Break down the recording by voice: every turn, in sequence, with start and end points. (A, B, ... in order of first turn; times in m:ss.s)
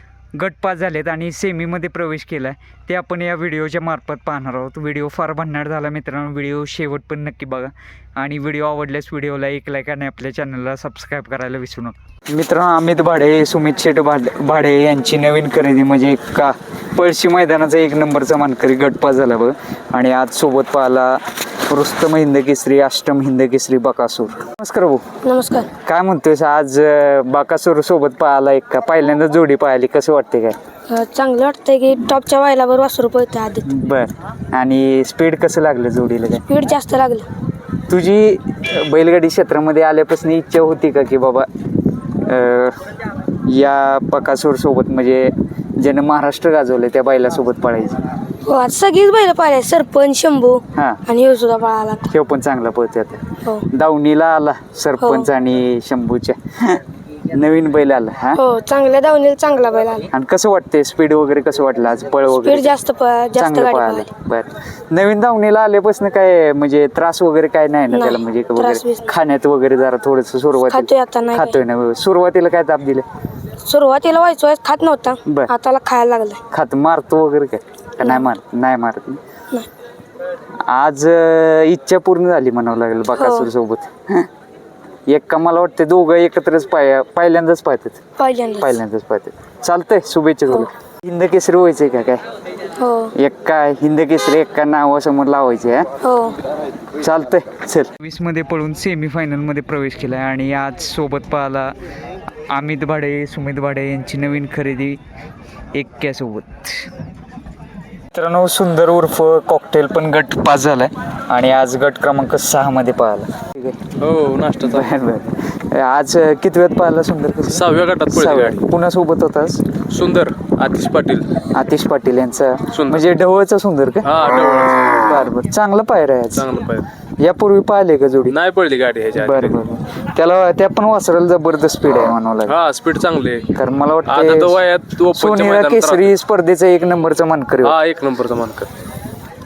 0:00.4-0:25.0 A
0:25.2-0:25.7 B
0:25.8-0:30.6 A
0:30.9-0:33.7 B
0:33.7-0:36.4 A
0:36.5-0:37.3 B
0:37.9-0:41.5 A
0:42.1-0:42.8 A
0:43.4-0:48.0 A
0:48.4-0:52.1 B
0:50.7-0:51.0 A
0:52.1-0:58.4 A
0:55.0-0:55.3 B
0:58.3-1:00.1 B
1:00.1-1:02.7 A
1:02.4-1:04.1 B
1:03.4-1:13.0 A
1:07.9-1:09.1 B
1:10.6-1:11.6 B
1:13.6-1:16.4 B
1:16.5-1:19.2 A
1:18.0-1:18.3 B
1:20.7-1:24.3 A
1:23.1-1:23.5 B
1:25.1-1:28.0 A
1:28.2-1:28.8 B
1:28.6-1:32.2 A
1:32.8-1:33.1 B
1:33.2-1:35.9 A
1:36.0-1:36.4 B
1:37.0-1:41.7 A
1:42.5-1:45.0 A
1:45.7-1:46.9 A
1:48.1-1:53.8 A
1:54.0-1:54.9 C
1:54.6-1:59.6 A
1:57.5-1:58.6 C
1:59.9-2:01.3 C
2:01.5-2:04.2 A
2:02.7-2:03.0 C
2:04.0-2:04.9 C
2:04.9-2:06.5 A
2:06.3-2:06.8 C
2:07.2-2:08.4 A
2:08.3-2:09.6 C
2:09.1-2:12.6 A
2:12.5-2:13.4 C
2:13.5-2:14.6 A
2:14.1-2:16.0 C
2:15.1-2:17.8 A
2:17.6-2:18.7 C